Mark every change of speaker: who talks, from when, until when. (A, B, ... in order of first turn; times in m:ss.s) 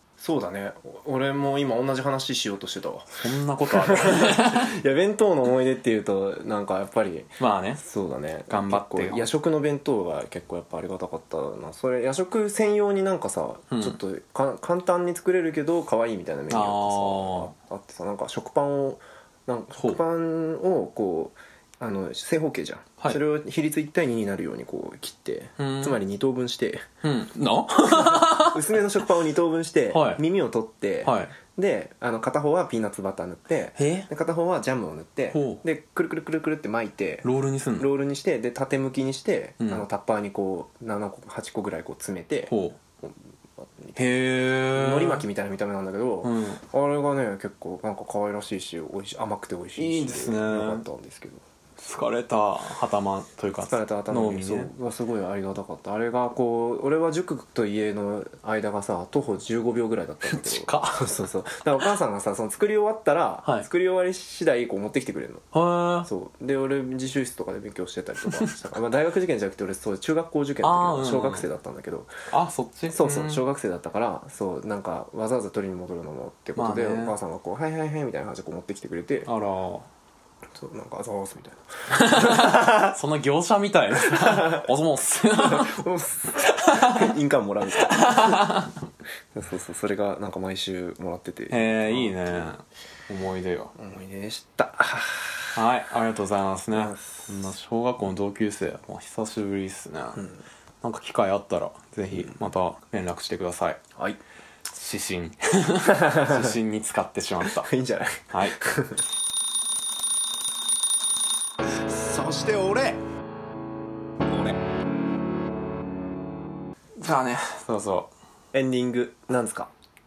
0:00.2-0:03.1 A
0:03.2-0:04.7 B
0:03.7-0:26.8 A
0:07.4-0:07.8 B
0:08.5-0:09.3 B
0:13.7-0:14.0 B
0:16.5-0:17.5 B
0:25.6-0:26.0 B
0:27.0-0:28.6 B
0:27.9-0:37.3 A
0:29.9-0:30.2 B
0:31.0-0:31.4 B
0:33.8-0:34.1 B
0:35.3-0:35.6 B
0:37.2-0:37.9 B
0:37.8-0:44.0 A
0:42.5-0:42.8 B
0:44.0-0:45.2 B
0:44.7-0:51.4 A
0:46.2-0:46.6 B
0:49.8-0:50.8 B
0:51.8-0:54.7 B
0:53.6-1:05.4 A
1:00.3-1:01.1 B
1:05.5-1:06.1 B
1:06.1-1:12.1 A
1:10.6-1:11.5 B
1:12.3-1:13.4 B
1:12.9-1:19.3 A
1:16.6-1:17.2 B
1:19.3-1:19.9 B
1:20.6-1:23.0 A
1:21.9-1:25.8 B
1:24.1-1:24.7 A
1:25.3-1:28.5 A
1:26.4-1:27.1 B
1:27.8-1:28.8 B
1:29.3-1:32.5 A
1:31.5-1:33.7 B
1:33.8-1:35.5 A
1:35.6-1:40.3 B
1:36.7-1:37.4 A
1:40.8-1:43.8 B
1:44.7-1:47.7 B
1:45.9-1:46.6 A
1:47.4-1:49.0 A
1:48.3-1:48.6 B
1:51.7-1:53.0 A
1:54.2-1:54.6 A
1:57.0-1:58.1 B
1:58.5-1:59.7 A